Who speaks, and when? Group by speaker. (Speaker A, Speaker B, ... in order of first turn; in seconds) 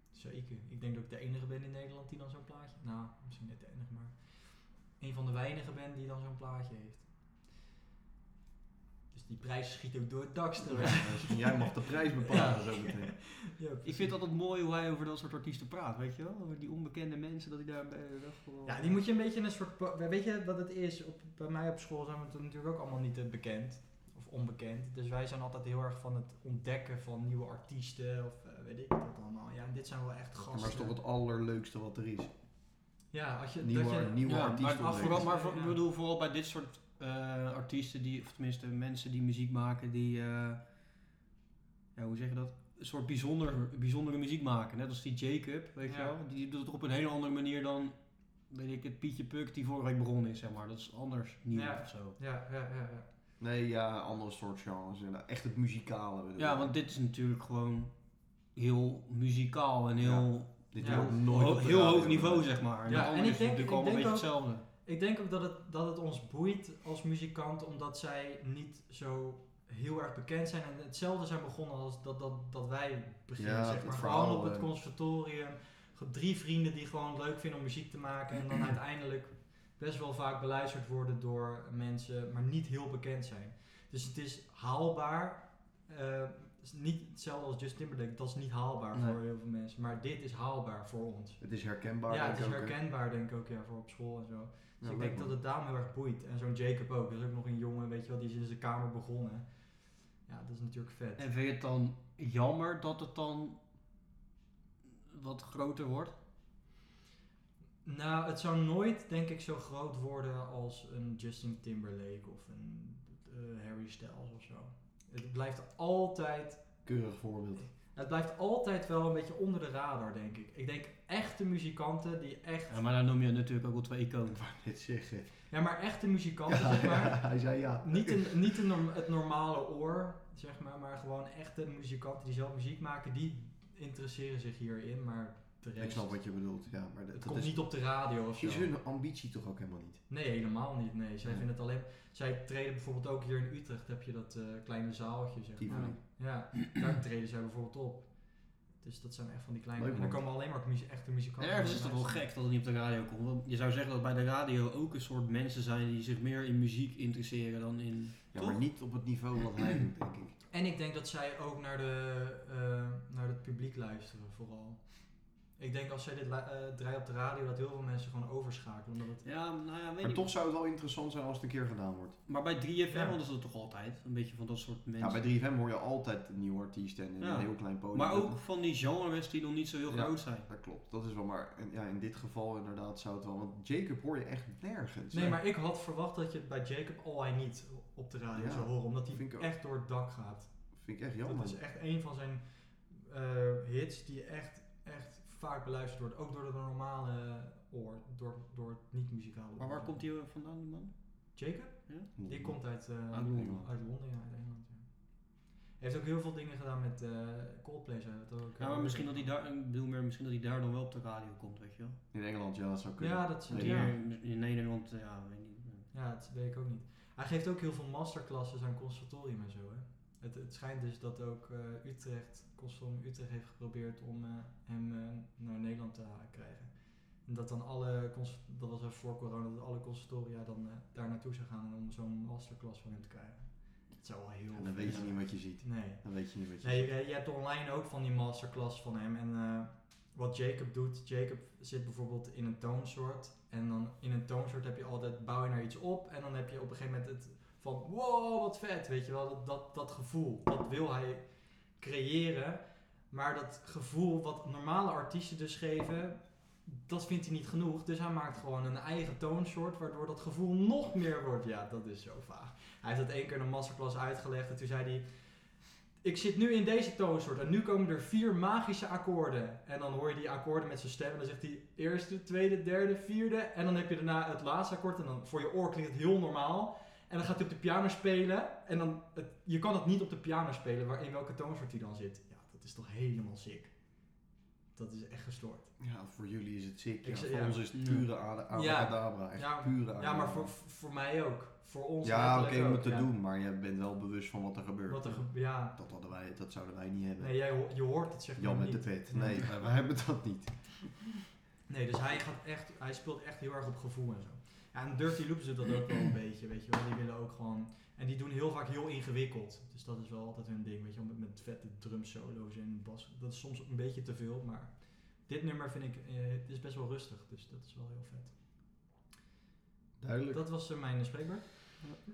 Speaker A: 0.1-7.1, 9.1-14.2, 18.6-31.0, 33.1-35.8, 45.8-46.2, 51.5-53.1, 60.8-61.1, 62.9-91.5, 92.0-99.7, 100.2-101.3, 107.8-116.9, 117.6-122.8, 125.5-136.2, 137.1-138.7, 140.1-152.2, 160.5-169.2, 172.9-173.2, 185.1-200.1, 201.3-209.3, 213.0-213.9, 215.9-283.8, 284.7-285.7, 287.0-287.7, 288.5-293.1, 294.9-295.8, 297.2-299.5, 301.7-318.4, 320.3-321.8
Speaker B: 10.7-13.2, 30.5-32.3, 33.6-35.3, 53.4-56.7, 60.0-62.7, 73.4-74.7, 91.4-92.8, 94.8-95.4, 116.8-117.7, 124.3-125.4, 126.5-128.5, 135.8-140.0, 145.6-146.0, 149.8-150.2, 158.3-160.4, 170.0-172.2, 175.0-178.4, 179.9-185.4, 188.3-189.5, 190.7-191.6, 202.2-202.8, 203.3-203.7, 212.1-213.9, 234.5-236.9, 285.8-290.5, 292.0-297.3, 298.4-301.0, 320.0-320.4
Speaker C: 12.3-12.6, 13.8-19.0, 34.2-40.7, 42.0-48.0, 48.5-52.2, 56.4-64.6, 101.2-103.6, 105.1-106.1, 122.7-124.4, 145.7-145.9, 151.4-158.9, 169.2-170.3, 172.3-175.3, 177.2-180.5, 199.6-201.4, 203.1-203.6, 208.6-212.0, 213.5-215.9, 234.9-235.1, 287.7-288.1